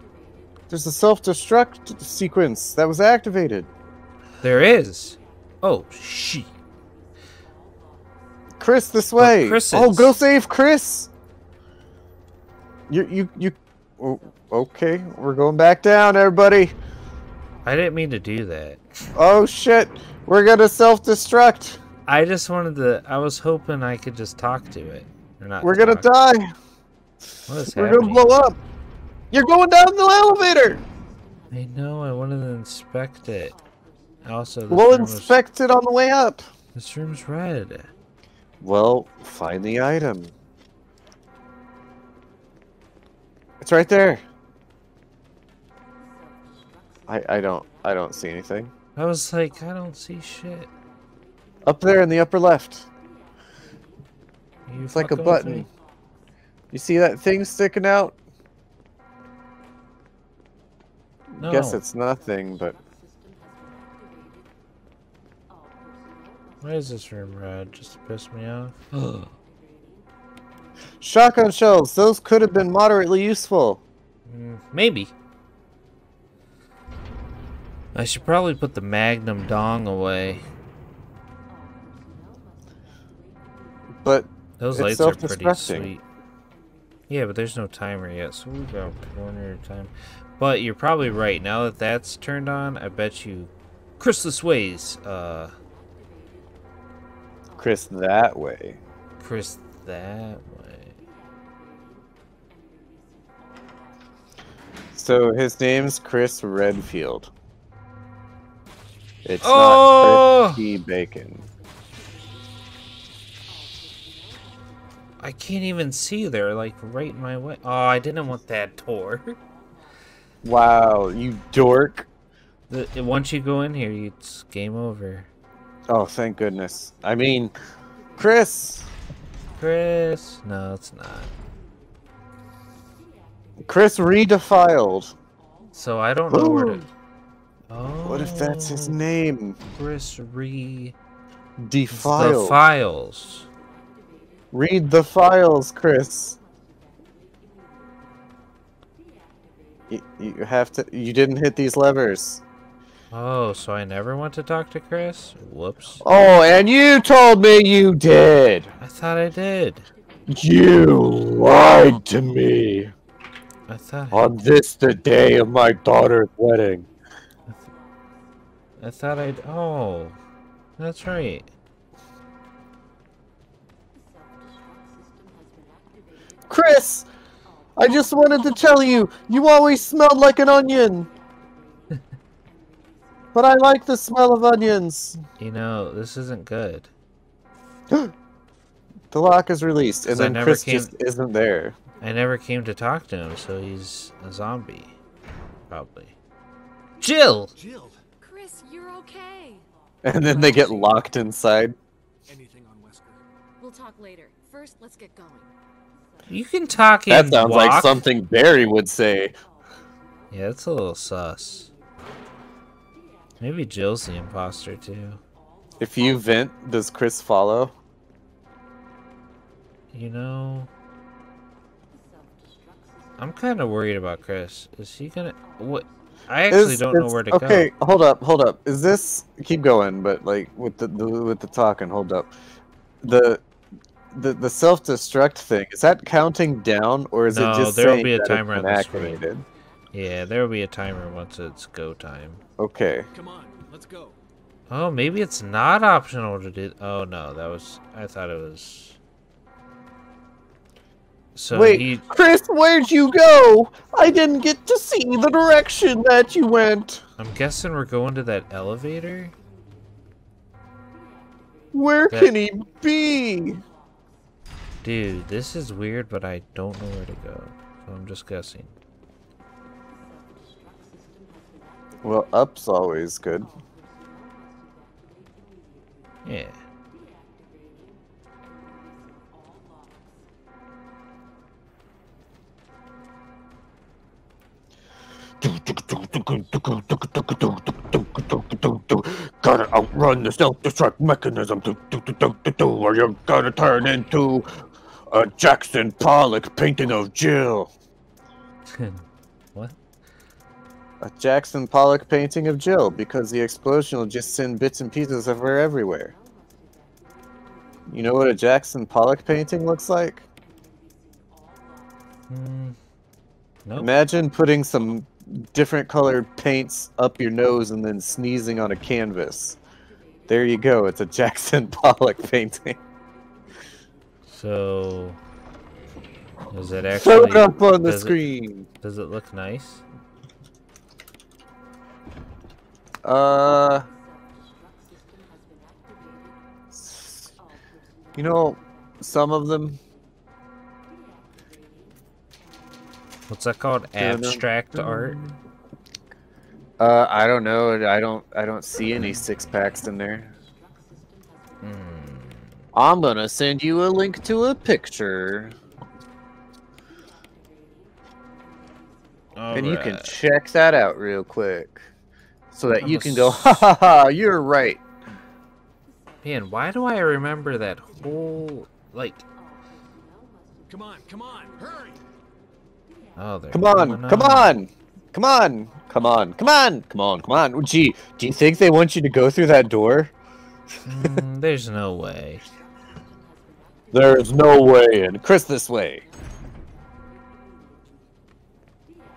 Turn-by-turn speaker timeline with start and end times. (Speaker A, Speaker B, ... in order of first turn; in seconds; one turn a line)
Speaker A: 0.7-3.7
Speaker B: 4.4-6.5
Speaker A: 8.6-11.1
Speaker B: 9.2-10.2
Speaker A: 12.9-16.7
Speaker B: 17.6-18.8
Speaker A: 19.1-21.8
Speaker B: 22.1-26.1
Speaker A: 25.6-26.5
Speaker B: 27.5-28.3
Speaker A: 27.7-28.6
Speaker A: 29.3-30.8
Speaker B: 31.5-33.6
Speaker B: 34.2-35.4
Speaker A: 34.7-36.4
Speaker B: 36.7-37.9
Speaker A: 38.6-40.3
Speaker A: 43.6-44.2
Speaker A: 47.1-48.7
Speaker B: 49.0-50.7
Speaker A: 51.6-52.9
Speaker B: 54.7-55.7
Speaker A: 54.9-55.7
Speaker A: 56.7-58.1
Speaker A: 61.3-62.8
Speaker B: 61.4-61.8
Speaker B: 66.6-69.3
Speaker A: 71.0-73.8
Speaker B: 74.3-75.1
Speaker B: 77.9-80.5
Speaker A: 84.0-85.9
Speaker B: 84.6-86.0
Speaker B: 87.1-95.5
Speaker A: 97.6-98.8
Speaker B: 99.2-101.0
Speaker A: 104.9-107.3
Speaker A: 109.2-111.5
Speaker B: 109.4-110.6
Speaker B: 115.2-119.4
Speaker A: 120.4-122.1
Speaker B: 122.7-125.3
Speaker A: 125.9-127.5
Speaker A: 128.2-128.9
Speaker B: 129.6-131.3
Speaker A: 133.6-135.1
Speaker B: 135.7-136.8
Speaker A: 136.3-136.9
Speaker B: 137.7-139.0
Speaker A: 138.0-139.6
Speaker B: 139.7-140.9
Speaker A: 141.6-142.6
Speaker B: 141.9-143.5
Speaker A: 144.5-146.4
Speaker A: 149.9-152.4
Speaker B: 153.1-156.0
Speaker A: 156.0-158.7
Speaker B: 158.8-159.9
Speaker A: 160.3-162.9
Speaker B: 163.7-164.3
Speaker A: 164.1-166.9
Speaker B: 168.8-170.2
Speaker B: 170.8-171.5
Speaker A: 176.5-177.1
Speaker A: 177.8-181.1
Speaker A: 183.3-185.2
Speaker B: 185.4-186.9
Speaker A: 189.1-191.8
Speaker B: 190.1-190.9
Speaker B: 192.0-194.9
Speaker B: 195.7-196.1
Speaker B: 197.0-197.5
Speaker C: 197.6-198.0
Speaker D: 198.2-199.6
Speaker A: 200.0-201.8
Speaker D: 200.2-201.0
Speaker C: 202.3-203.2
Speaker D: 203.6-205.5
Speaker B: 206.3-208.0
Speaker A: 207.1-209.3
Speaker B: 210.3-211.7
Speaker B: 213.4-215.2
Speaker A: 215.8-217.7
Speaker B: 219.9-220.7
Speaker B: 223.2-227.7
Speaker A: 226.5-232.3
Speaker A: 233.0-233.4
Speaker A: 234.1-239.4
Speaker B: 237.3-239.2
Speaker B: 239.9-242.4
Speaker A: 242.6-243.1
Speaker C: 243.1-244.2
Speaker B: 244.7-249.0
Speaker B: 251.3-252.1
Speaker A: 251.5-257.0
Speaker B: 257.2-259.3
Speaker A: 261.7-263.6
Speaker B: 264.8-268.8
Speaker A: 272.0-273.5
Speaker B: 276.2-276.6
Speaker A: 285.4-294.5
Speaker A: 295.1-297.7
Speaker B: 298.7-299.8
Speaker A: 301.0-306.1
Speaker A: 307.9-310.2
Speaker B: 312.3-312.8
Speaker B: 313.6-313.9
Speaker A: 313.8-319.6
Speaker A: 320.3-322.8
Speaker B: 324.3-325.2
Speaker B: 326.5-328.2
Speaker A: 326.9-328.7
Speaker B: 328.8-329.8
Speaker A: 333.0-333.9
Speaker A: 336.7-337.3
Speaker A: 338.1-339.8
Speaker B: 343.3-345.2
Speaker A: 344.0-345.3
Speaker A: 346.8-350.3
Speaker B: 351.6-352.6
Speaker A: 352.7-355.6
Speaker B: 359.3-360.1
Speaker A: 359.5-361.9
Speaker A: 362.5-364.8
Speaker B: 362.8-363.7
Speaker B: 366.2-369.2
Speaker C: 370.7-372.0
Speaker B: 373.2-374.6
Speaker A: 373.5-380.1
Speaker B: 380.8-382.4
Speaker A: 383.9-386.1